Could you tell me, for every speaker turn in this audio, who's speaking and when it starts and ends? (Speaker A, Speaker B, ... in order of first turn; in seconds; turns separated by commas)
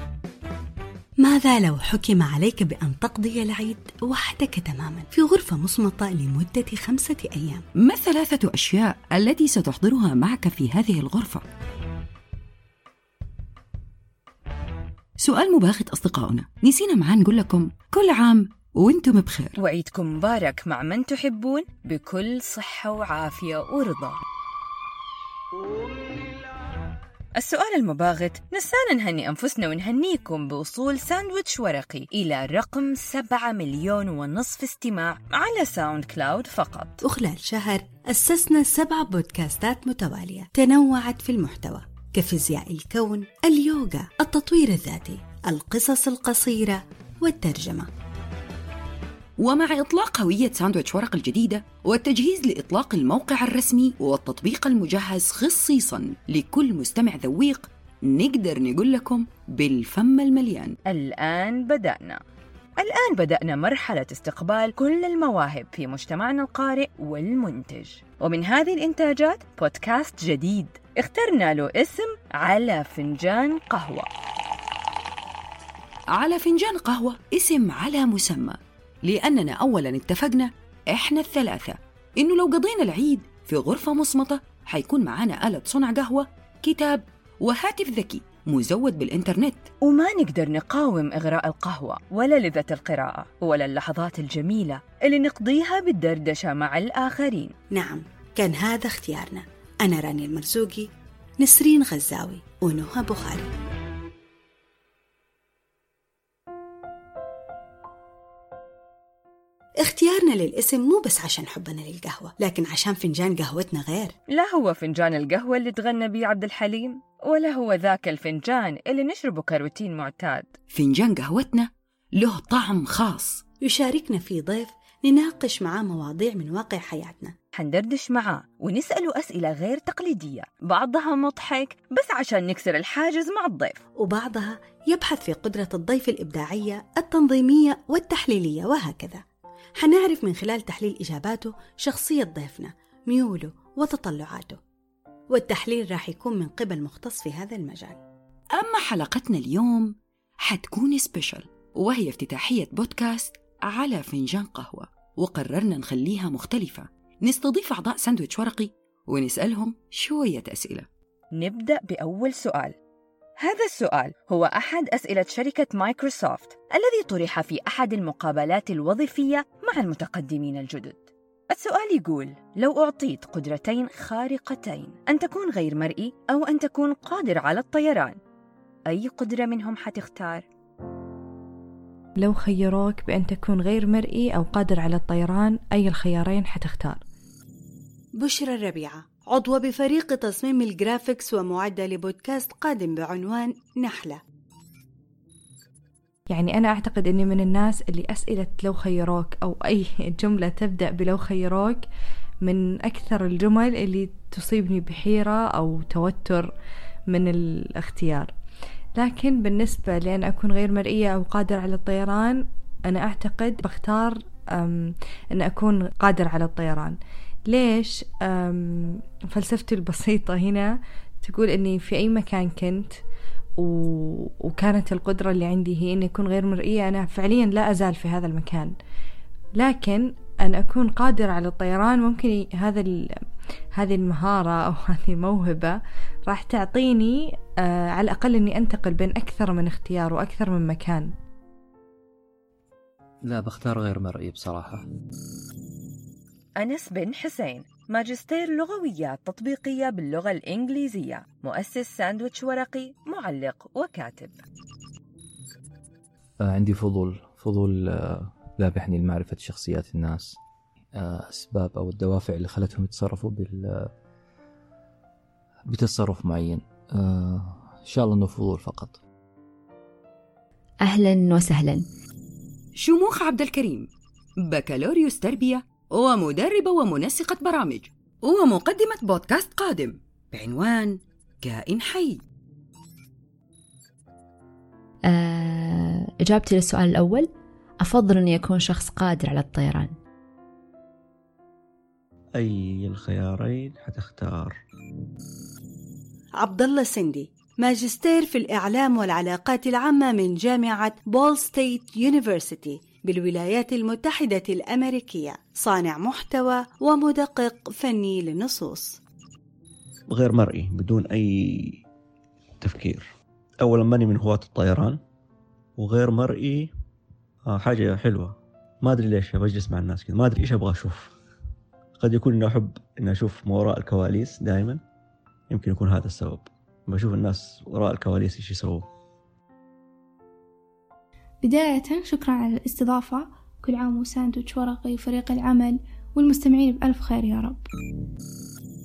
Speaker A: 1.2-7.6, Speaker B: 7.8-11.4, Speaker B: 15.2-19.5, Speaker C: 19.6-24.2, Speaker C: 27.4-37.0, Speaker A: 37.0-47.9, Speaker B: 49.4-60.7, Speaker C: 60.9-62.2, Speaker C: 62.8-74.1, Speaker B: 76.1-89.7, Speaker C: 89.8-97.5, Speaker A: 97.7-103.5, Speaker A: 109.8-114.1, Speaker C: 114.3-120.5, Speaker B: 120.7-123.4, Speaker A: 123.6-127.3, Speaker C: 127.5-133.8, Speaker A: 134.0-139.2, Speaker A: 139.8-144.6, Speaker A: 145.3-148.0, Speaker B: 148.6-149.9, Speaker B: 150.4-160.9, Speaker C: 161.3-162.7, Speaker C: 163.4-178.2, Speaker C: 178.9-180.4, Speaker D: 182.2-187.0, Speaker A: 188.2-194.2, Speaker D: 196.3-201.8, Speaker D: 202.4-206.5, Speaker D: 207.1-208.3, Speaker D: 208.9-216.9, Speaker D: 217.5-222.9, Speaker D: 223.6-228.7, Speaker D: 229.6-233.1, Speaker D: 233.7-241.1, Speaker E: 243.2-244.8, Speaker C: 246.6-254.4, Speaker E: 256.4-260.4, Speaker E: 260.9-263.9, Speaker E: 265.7-269.0, Speaker F: 270.8-271.8, Speaker B: 272.7-273.9, Speaker B: 274.4-282.2, Speaker F: 285.1-287.3, Speaker F: 287.8-289.9, Speaker G: 292.3-294.6, Speaker A: 296.4-309.0, Speaker G: 310.1-311.8, Speaker G: 312.6-313.1, Speaker G: 313.6-315.0, Speaker G: 315.8-316.7, Speaker G: 317.4-321.1, Speaker G: 322.0-324.8, Speaker G: 325.5-328.9, Speaker H: 331.4-337.6